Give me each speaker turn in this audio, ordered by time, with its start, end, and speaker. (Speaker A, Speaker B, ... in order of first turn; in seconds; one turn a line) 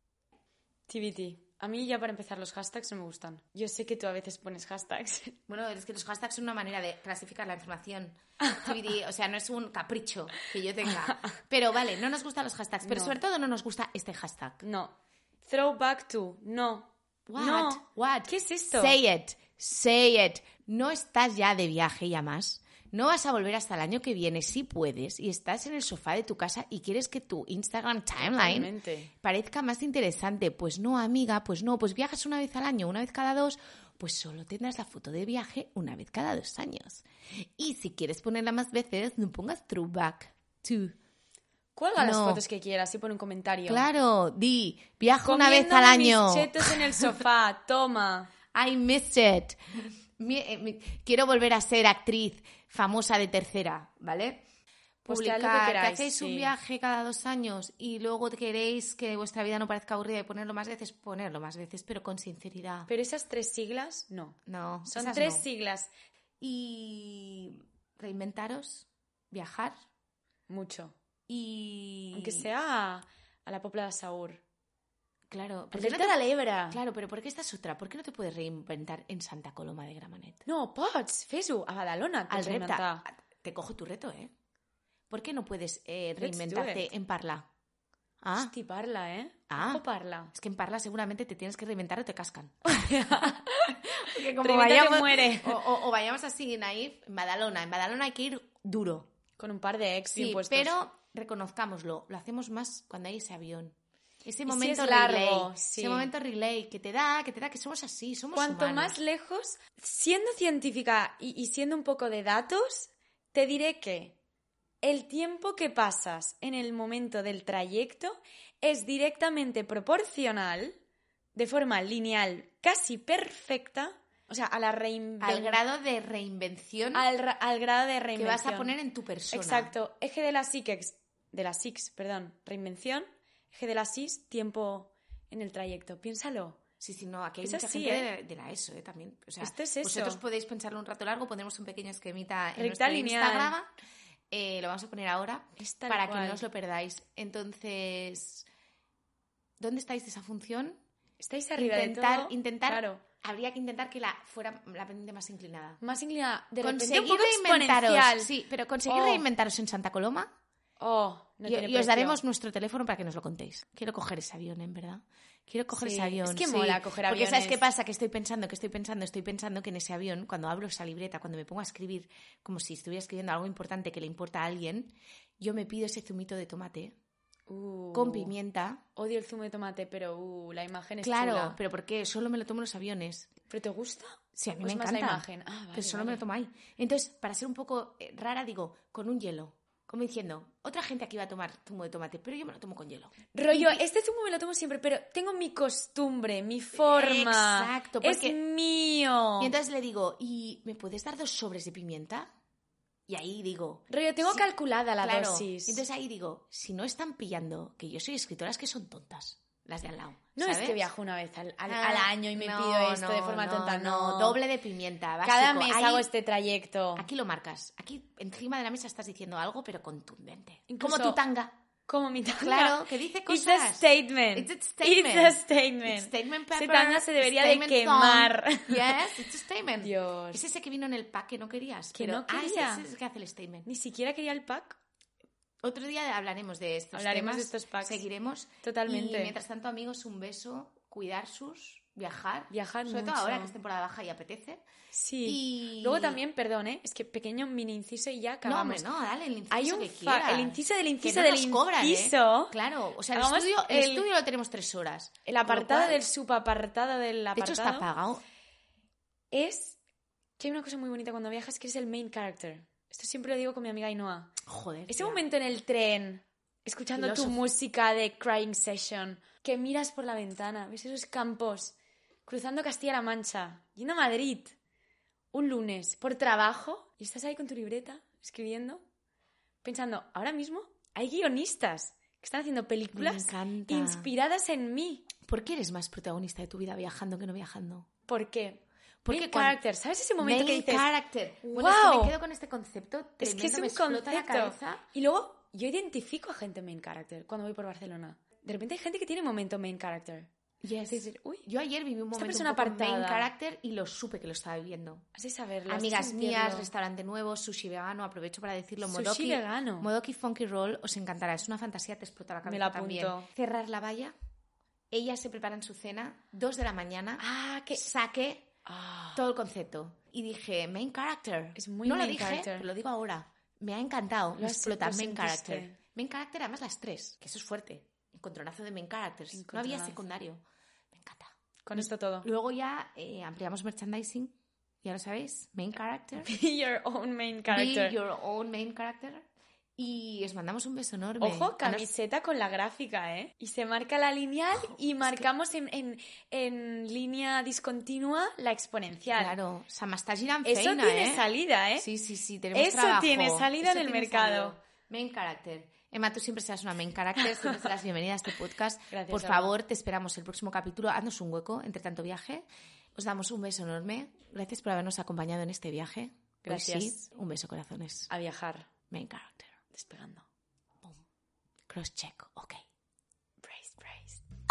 Speaker A: 0.9-5.4
Speaker B: 5.5-14.6
Speaker A: 8.4-8.7
Speaker A: 11.1-11.3
Speaker A: 12.8-13.2
Speaker A: 14.6-19.0
Speaker B: 17.3-41.0
Speaker A: 28.2-29.1
Speaker A: 41.8-43.9
Speaker B: 42.0-42.4
Speaker B: 43.7-47.2
Speaker A: 45.2-48.3
Speaker B: 48.5-54.4
Speaker A: 55.0-56.5
Speaker B: 55.1-62.9
Speaker A: 62.9-64.4
Speaker B: 64.5-65.5
Speaker A: 64.9-65.9
Speaker B: 66.4-69.7
Speaker A: 70.5-71.0
Speaker B: 71.3-72.5
Speaker A: 72.1-74.4
Speaker B: 75.3-76.2
Speaker A: 75.7-76.8
Speaker B: 76.7-80.4
Speaker A: 80.5-83.0
Speaker B: 82.3-84.3
Speaker B: 85.1-87.5
Speaker A: 86.2-86.9
Speaker B: 88.2-88.5
Speaker A: 88.4-90.3
Speaker B: 89.5-99.1
Speaker A: 92.7-95.6
Speaker A: 99.4-100.8
Speaker B: 100.1-109.0
Speaker A: 104.5-106.1
Speaker A: 108.3-114.2
Speaker A: 114.8-120.8
Speaker A: 121.4-125.6
Speaker B: 125.2-127.1
Speaker A: 126.9-128.8
Speaker B: 128.2-129.7
Speaker A: 129.3-136.6
Speaker B: 136.8-143.7
Speaker A: 137.4-138.1
Speaker A: 139.4-140.2
Speaker A: 142.6-143.6
Speaker B: 144.3-148.5
Speaker A: 145.6-146.4
Speaker B: 149.6-150.8
Speaker A: 151.2-153.0
Speaker B: 151.6-155.8
Speaker A: 155.8-158.3
Speaker B: 156.6-160.3
Speaker A: 158.9-159.2
Speaker A: 160.8-162.2
Speaker B: 161.4-176.9
Speaker A: 165.7-167.7
Speaker A: 177.5-178.3
Speaker B: 177.9-178.8
Speaker A: 179.0-181.6
Speaker B: 181.0-183.3
Speaker A: 183.5-186.2
Speaker B: 184.4-193.8
Speaker A: 193.3-199.6
Speaker B: 196.8-198.4
Speaker B: 199.4-202.3
Speaker B: 203.1-204.4
Speaker A: 203.9-205.8
Speaker B: 205.0-210.9
Speaker A: 210.4-214.4
Speaker B: 211.7-216.1
Speaker A: 215.2-217.1
Speaker B: 217.0-221.6
Speaker A: 220.7-221.2
Speaker A: 221.9-229.1
Speaker B: 222.4-233.7
Speaker A: 229.8-230.4
Speaker A: 231.9-232.9
Speaker A: 233.7-234.8
Speaker B: 235.6-244.6
Speaker A: 236.9-238.0
Speaker A: 238.6-239.3
Speaker A: 242.5-243.6
Speaker A: 244.9-248.9
Speaker B: 245.2-246.2
Speaker B: 248.4-256.0
Speaker A: 249.5-252.6
Speaker A: 253.1-254.1
Speaker A: 255.3-257.9
Speaker B: 257.4-258.2
Speaker A: 259.3-259.8
Speaker A: 260.4-271.8
Speaker B: 264.4-265.2
Speaker B: 266.9-267.4
Speaker A: 272.3-274.6
Speaker A: 275.3-278.8
Speaker A: 279.6-285.1
Speaker B: 282.9-284.1
Speaker B: 285.2-287.9
Speaker A: 288.1-290.9
Speaker B: 289.0-289.6
Speaker B: 290.2-294.8
Speaker A: 291.5-292.1
Speaker A: 293.2-300.3
Speaker B: 300.6-305.1
Speaker A: 300.9-301.5
Speaker A: 302.1-303.3
Speaker A: 305.1-306.7
Speaker B: 305.7-314.1
Speaker A: 308.8-309.9
Speaker A: 312.5-313.3
Speaker B: 314.9-317.2
Speaker A: 317.2-317.9
Speaker B: 317.8-318.5
Speaker A: 318.7-319.2
Speaker B: 319.1-336.3
Speaker A: 321.6-322.7
Speaker A: 324.4-325.8
Speaker A: 329.3-330.0
Speaker A: 331.7-332.3
Speaker A: 336.2-338.0
Speaker B: 337.5-339.3
Speaker B: 339.8-341.9
Speaker A: 341.2-349.4
Speaker B: 344.5-345.3
Speaker B: 349.2-351.3
Speaker A: 350.4-351.9
Speaker B: 351.8-368.1
Speaker A: 352.5-354.6
Speaker A: 358.9-359.5
Speaker A: 366.4-367.1
Speaker A: 368.1-368.7
Speaker B: 368.9-369.5
Speaker A: 369.7-370.3
Speaker B: 371.7-372.6
Speaker A: 373.4-374.2